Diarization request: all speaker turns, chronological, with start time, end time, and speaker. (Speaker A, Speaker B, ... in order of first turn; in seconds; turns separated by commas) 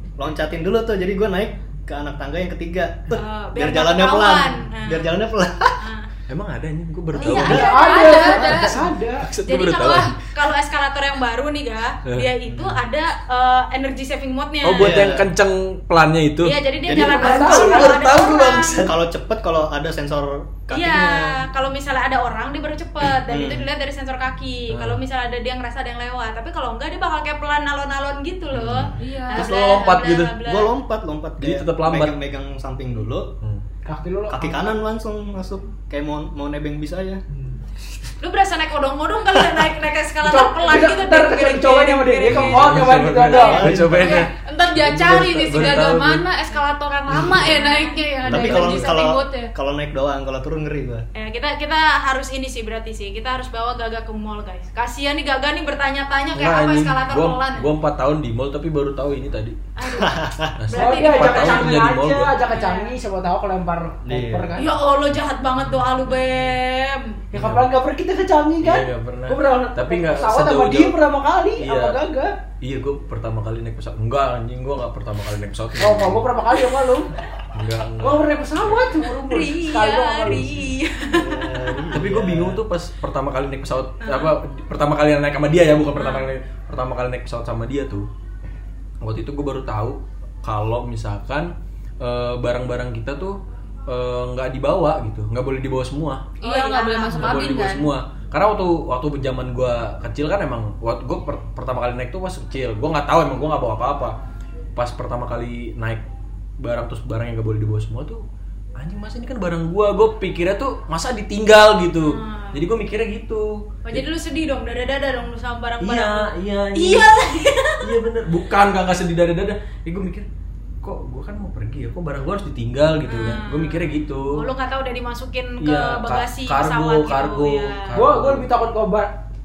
Speaker A: 0.2-5.8, Speaker B: 3.1-5.2, Speaker B: 5.8-6.1, Speaker C: 6.3-7.7, Speaker B: 7.1-8.5, Speaker D: 7.3-9.3, Speaker E: 7.3-8.8, Speaker A: 8.2-8.6, Speaker C: 9.2-10.1, Speaker B: 9.4-15.0, Speaker E: 9.7-10.1, Speaker A: 12.5-12.8, Speaker C: 14.6-16.6, Speaker A: 14.7-15.3, Speaker B: 16.4-18.8, Speaker A: 16.9-17.5, Speaker D: 16.9-18.0, Speaker C: 17.1-18.9, Speaker A: 18.8-21.4, Speaker B: 20.7-30.7, Speaker A: 23.2-23.7, Speaker C: 24.7-25.0, Speaker A: 28.5-28.9, Speaker C: 28.6-30.4, Speaker E: 29.0-29.5, Speaker A: 30.4-33.3, Speaker C: 31.4-32.1, Speaker D: 33.8-34.8, Speaker A: 34.3-37.2, Speaker D: 37.3-37.6, Speaker B: 38.2-43.4, Speaker D: 40.2-44.0, Speaker C: 42.2-46.2, Speaker A: 43.2-44.2, Speaker E: 43.9-49.5, Speaker A: 47.1-47.4, Speaker B: 47.3-48.0, Speaker A: 48.2-51.0, Speaker B: 51.1-57.7, Speaker C: 56.3-59.6, Speaker B: 59.8-62.9, Speaker A: 59.9-60.6, Speaker C: 60.5-62.3, Speaker D: 60.7-64.7, Speaker A: 64.0-64.6, Speaker B: 64.5-67.2, Speaker D: 67.3-72.3, Speaker C: 67.3-67.7, Speaker C: 68.6-71.0, Speaker C: 71.5-72.0, Speaker C: 72.6-76.2, Speaker D: 75.8-77.2, Speaker C: 77.5-78.8, Speaker D: 78.0-80.7, Speaker B: 79.1-81.9, Speaker A: 81.1-82.6, Speaker C: 81.9-88.1, Speaker B: 84.0-84.3, Speaker B: 86.0-86.3, Speaker C: 89.0-96.2, Speaker B: 96.4-97.6, Speaker E: 96.4-97.9, Speaker C: 97.1-104.2, Speaker C: 104.8-106.1, Speaker C: 106.6-108.2, Speaker C: 108.8-114.1, Speaker B: 112.0-112.7, Speaker B: 113.8-117.9, Speaker C: 115.8-117.2, Speaker C: 117.8-120.3, Speaker C: 120.8-124.4, Speaker B: 123.0-128.0, Speaker C: 125.6-128.5, Speaker D: 127.9-129.2